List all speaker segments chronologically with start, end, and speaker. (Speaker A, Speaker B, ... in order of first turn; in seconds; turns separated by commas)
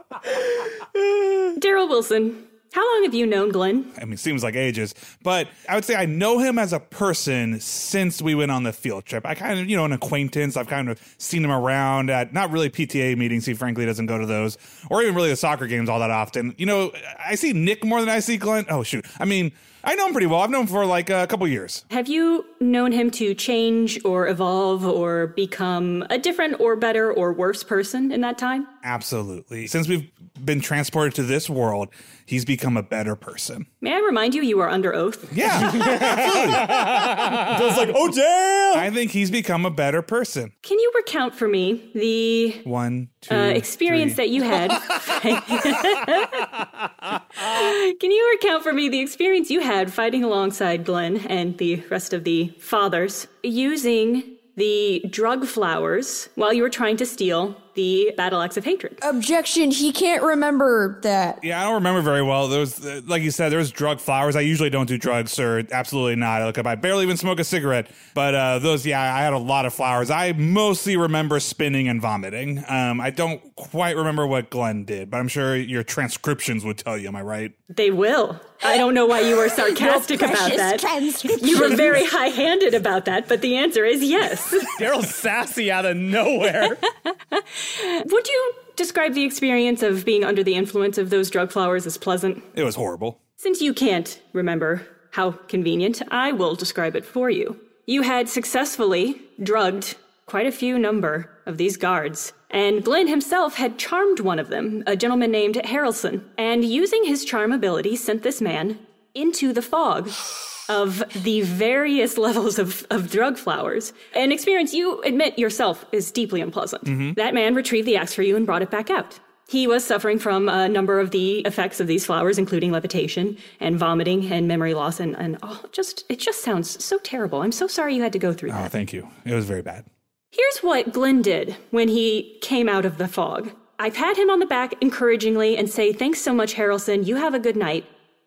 Speaker A: 1.6-3.9, Speaker B: 4.0-21.8, Speaker A: 21.9-28.7, Speaker B: 28.8-33.7, Speaker A: 33.8-35.8, Speaker B: 35.3-36.9, Speaker C: 35.9-36.6, Speaker D: 36.8-37.5, Speaker C: 37.4-38.9, Speaker B: 38.7-40.5, Speaker A: 40.6-42.7, Speaker B: 42.6-44.2, Speaker A: 43.3-46.6, Speaker A: 47.4-59.0, Speaker E: 59.0-61.4, Speaker B: 61.4-77.5, Speaker A: 77.7-84.8, Speaker E: 79.6-82.0, Speaker D: 84.7-86.8, Speaker A: 87.3-92.5, Speaker B: 92.5-93.2, Speaker A: 93.4-128.7, Speaker B: 116.9-117.2, Speaker B: 128.5-129.8, Speaker A: 130.3-137.9